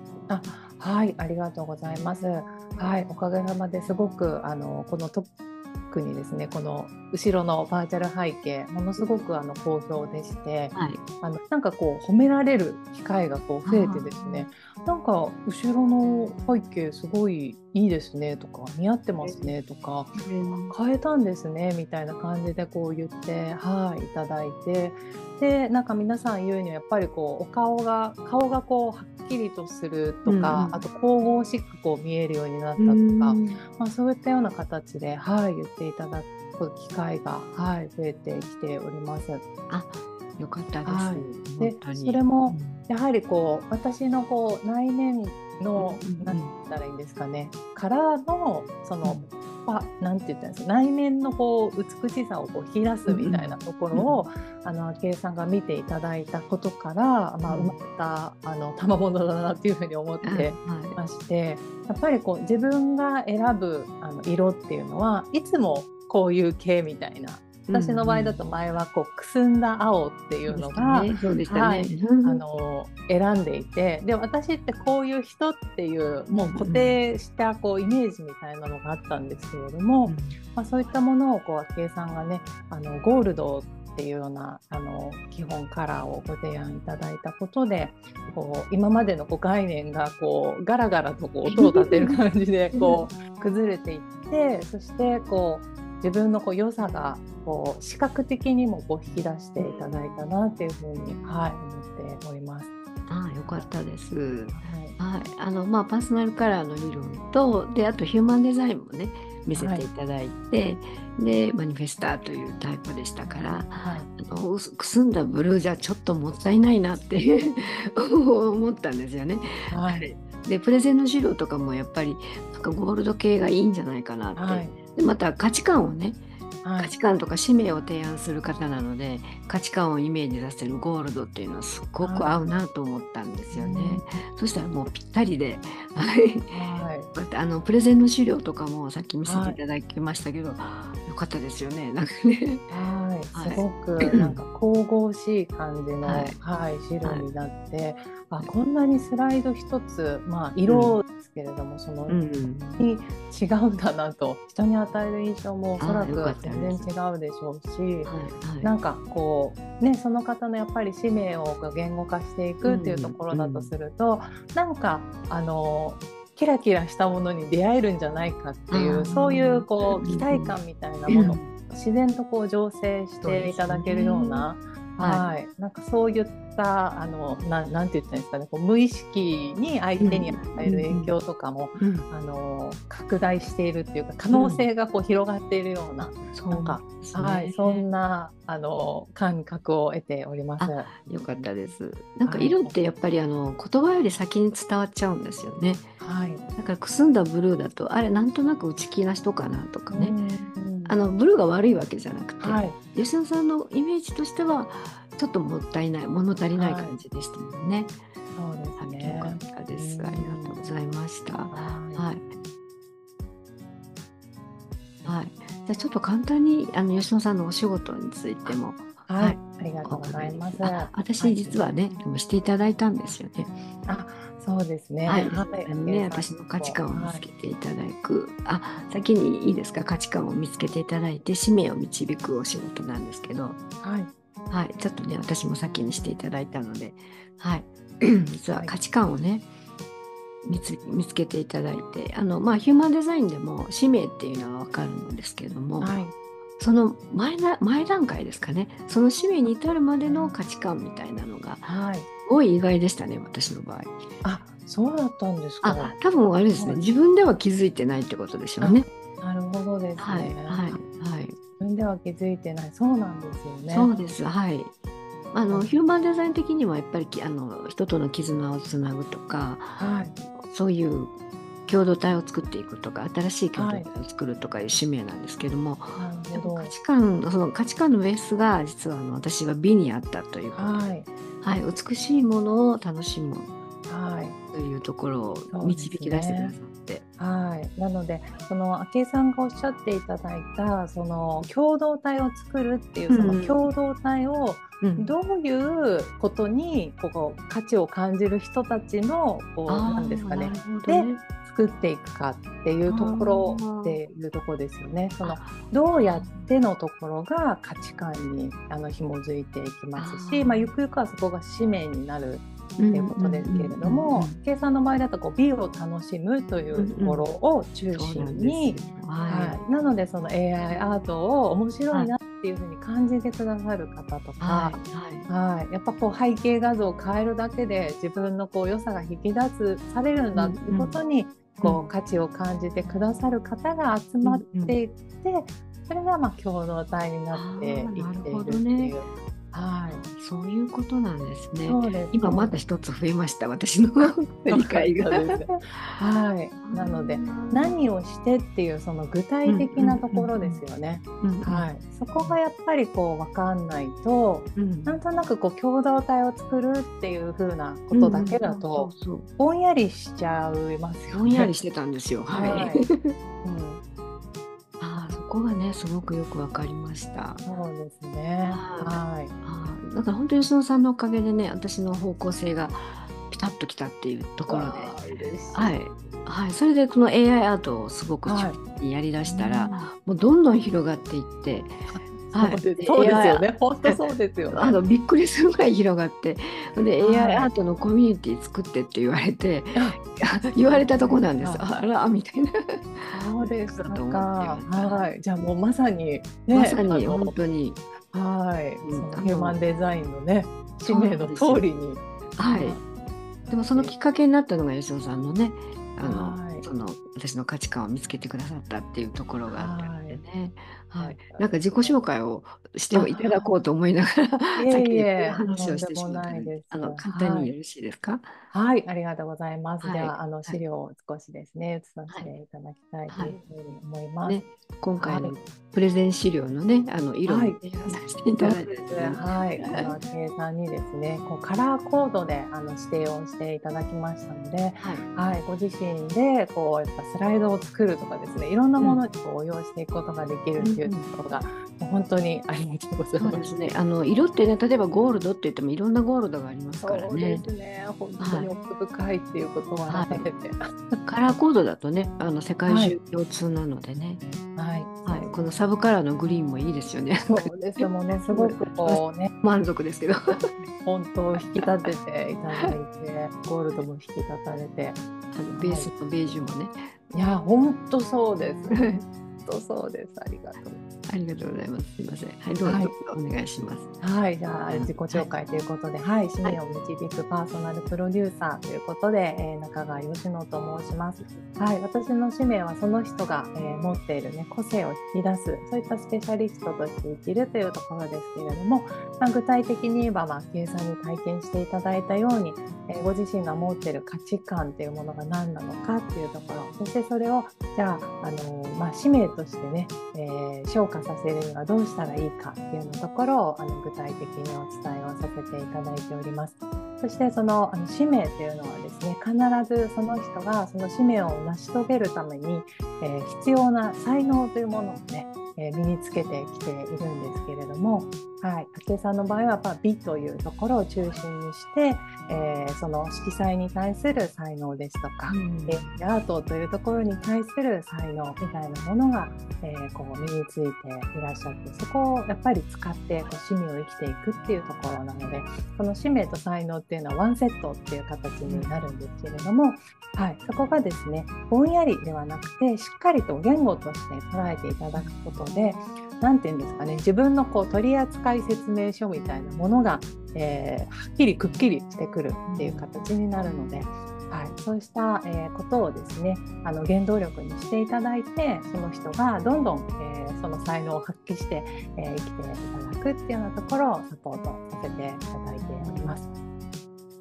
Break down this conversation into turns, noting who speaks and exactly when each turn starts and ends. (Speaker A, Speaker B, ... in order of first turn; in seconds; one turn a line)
Speaker A: 0.3-5.3
Speaker A: 5.9-20.2
Speaker B: 10.7-11.0
Speaker B: 13.6-14.4
Speaker B: 19.2-19.6
Speaker B: 20.1-20.7
Speaker A: 20.7-39.4
Speaker B: 30.2-30.8
Speaker B: 32.8-33.6
Speaker B: 39.7-42.8
Speaker A: 40.8-102.7
Speaker B: 45.8-46.5
Speaker B: 53.1-54.2
Speaker B: 57.5-57.8
Speaker B: 60.2-61.0
Speaker B: 67.7-68.4
Speaker B: 70.5-72.4
Speaker B: 76.4-77.0
Speaker B: 80.0-80.4
Speaker B: 91.4-92.2
Speaker B: 92.7-93.1
Speaker B: 99.6-100.0
Speaker B: 103.1-126.2
Speaker A: 104.5-105.0
Speaker A: 109.5-109.9
Speaker A: 113.8-114.1
Speaker A: 119.7-120.1
Speaker A: 124.3-124.7
Speaker A: 126.6-126.9
Speaker B: 126.8-142.6
Speaker A: 132.0-132.4
Speaker A: 133.5-134.2
Speaker A: 136.5-137.1
Speaker A: 139.2-139.6
Speaker A: 142.7-152.2
Speaker B: 143.3-144.4
Speaker B: 146.0-146.4
Speaker B: 147.0-147.3
Speaker B: 150.7-151.0
Speaker B: 152.1-152.9
Speaker A: 152.8-190.9
Speaker B: 155.8-156.9
Speaker B: 158.0-158.7
Speaker B: 162.6-163.7
Speaker B: 168.7-170.6
Speaker B: 171.1-171.5
Speaker B: 173.2-174.5
Speaker B: 175.0-175.2
Speaker B: 180.0-181.1
Speaker B: 181.8-182.1
Speaker B: 184.3-184.7
Speaker B: 186.0-187.8
Speaker B: 190.6-195.9
Speaker A: 192.2-192.7
Speaker A: 196.0-196.4
Speaker B: 196.6-200.1
Speaker A: 199.9-200.9
Speaker B: 200.8-208.0
Speaker A: 202.4-202.8
Speaker A: 206.5-207.0
Speaker A: 208.3-210.6
Speaker B: 208.8-212.2
Speaker A: 211.5-212.1
Speaker B: 215.1-223.5
Speaker A: 218.4-221.6
Speaker A: 223.9-227.2
Speaker B: 225.1-233.6
Speaker A: 233.8-234.1
Speaker B: 234.5-239.5
Speaker B: 240.4-245.9
Speaker A: 245.8-246.1
Speaker B: 246.6-251.7
Speaker A: 250.0-250.3
Speaker A: 251.6-252.1
Speaker B: 252.2-254.0
Speaker A: 254.2-256.0
Speaker B: 255.6-258.9
Speaker A: 256.5-256.9
Speaker A: 258.6-260.8
Speaker B: 260.0-261.4
Speaker A: 261.6-263.9
Speaker B: 263.7-264.7
Speaker B: 265.3-271.1
Speaker A: 265.5-265.8
Speaker A: 269.8-270.1
Speaker B: 271.7-283.5
Speaker A: 273.5-273.9
Speaker A: 275.9-276.7
Speaker A: 280.6-281.1
Speaker A: 283.9-284.4
Speaker B: 284.5-287.1
Speaker A: 285.5-286.5
Speaker A: 287.2-340.0
Speaker B: 293.1-293.7
Speaker B: 294.8-295.1
Speaker B: 299.7-301.2
Speaker B: 302.9-304.0
Speaker B: 305.2-306.5
Speaker B: 309.9-310.7
Speaker B: 312.8-314.4
Speaker B: 316.7-317.2
Speaker B: 317.9-319.6
Speaker B: 324.4-325.3
Speaker B: 330.4-331.0
Speaker B: 334.2-334.8
Speaker B: 337.3-339.0
Speaker B: 339.9-346.0
Speaker A: 341.6-342.6
Speaker A: 344.5-361.5
Speaker B: 346.6-347.8
Speaker B: 349.4-350.6
Speaker B: 351.2-352.4
Speaker B: 354.6-355.0
Speaker B: 357.9-359.3
Speaker B: 361.1-363.1
Speaker A: 362.3-362.8
Speaker A: 363.4-363.8
Speaker B: 364.8-367.4
Speaker A: 367.4-369.3
Speaker B: 368.5-374.9
Speaker A: 374.5-375.8
Speaker B: 375.5-381.7
Speaker A: 378.2-378.6
Speaker A: 379.2-379.9
Speaker A: 381.9-384.8
Speaker B: 382.3-384.0
Speaker B: 384.5-395.1
Speaker A: 387.0-387.5
Speaker A: 390.6-391.7
Speaker A: 393.1-397.3
Speaker B: 396.5-397.8
Speaker A: 398.1-402.8
Speaker B: 398.8-399.6
Speaker B: 400.9-401.6
Speaker B: 402.4-402.8
Speaker A: 403.5-403.9
Speaker B: 403.5-418.3
Speaker A: 406.0-406.6
Speaker A: 409.5-410.2
Speaker A: 411.0-412.0
Speaker A: 412.9-413.5
Speaker A: 414.6-417.5
Speaker A: 418.5-424.4
Speaker B: 419.8-420.6
Speaker B: 423.1-423.4
Speaker B: 424.3-429.9
Speaker A: 425.0-425.3
Speaker A: 427.2-427.7
Speaker A: 428.4-443.5
Speaker B: 438.8-439.0
Speaker B: 440.6-441.1
Speaker B: 443.2-447.5
Speaker A: 446.8-450.7
Speaker B: 448.2-448.5
Speaker B: 449.9-450.3
Speaker B: 451.1-454.2
Speaker A: 452.6-452.9
Speaker A: 454.5-455.3
Speaker B: 455.1-460.4
Speaker A: 457.2-459.3
Speaker A: 460.8-465.0
Speaker B: 461.3-461.9
Speaker B: 465.3-466.8
Speaker A: 465.6-465.9
Speaker A: 467.1-470.8
Speaker B: 468.7-469.0
Speaker B: 471.1-473.9
Speaker A: 472.6-472.9
Speaker A: 474.0-566.2
Speaker B: 474.7-475.3
Speaker B: 525.3-526.0
Speaker B: 538.5-538.8
Speaker B: 552.5-552.9
Speaker B: 565.8-566.1